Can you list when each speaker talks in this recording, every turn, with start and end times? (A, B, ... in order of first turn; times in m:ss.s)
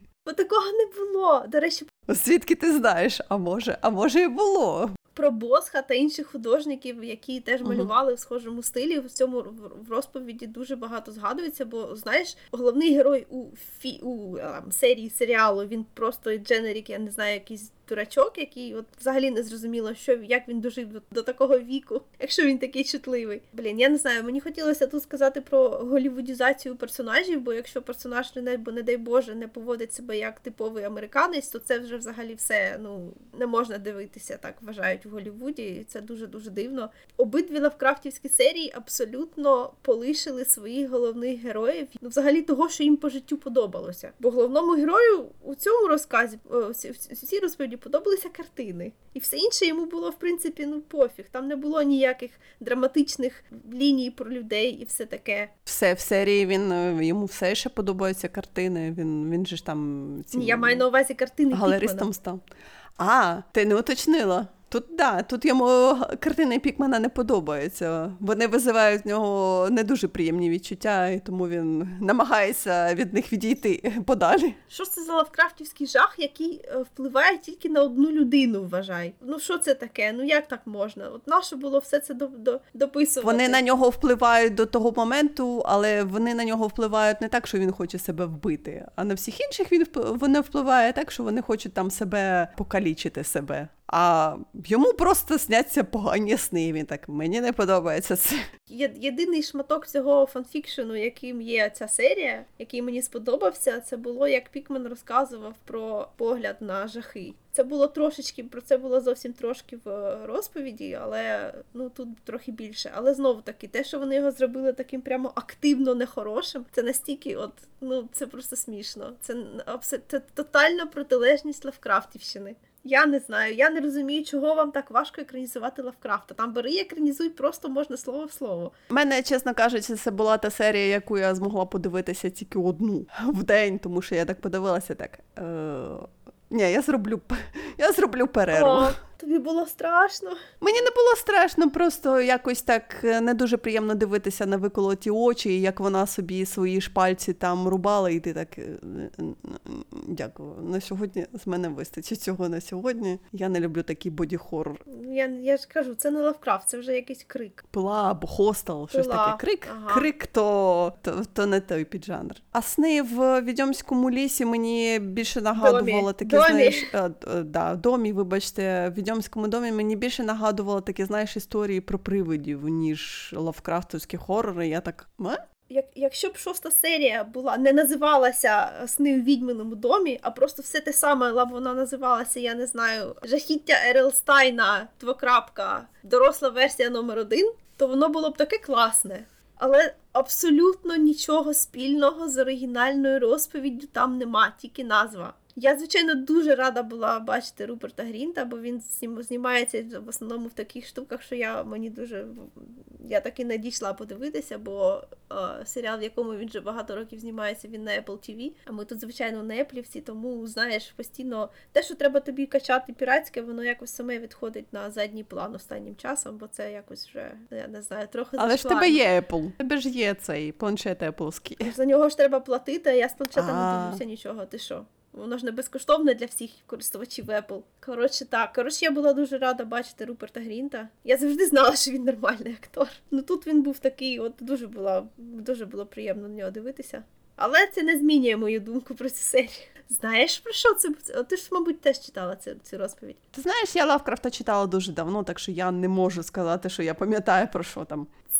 0:00.2-0:01.9 A
0:02.1-0:04.9 B
0:05.1-0:55.5 A
0:07.6-0:07.9 B
0:55.6-1:00.8 B
1:00.3-1:02.1 A
1:01.5-1:02.4 B
1:03.0-1:14.6 B
1:14.7-1:23.6 A
1:23.2-1:38.4 B
1:38.7-2:08.7 A
2:08.9-2:19.0 B
2:18.5-2:20.4 A
2:20.6-2:34.8 B
2:34.9-2:37.6 A
2:37.7-2:55.4 B
2:38.9-2:40.1 A
2:45.6-2:46.9 A
2:55.7-3:39.0 A
3:38.4-3:41.7 B
3:41.6-4:03.2 A
3:43.3-3:44.0 B
4:03.3-4:08.1 B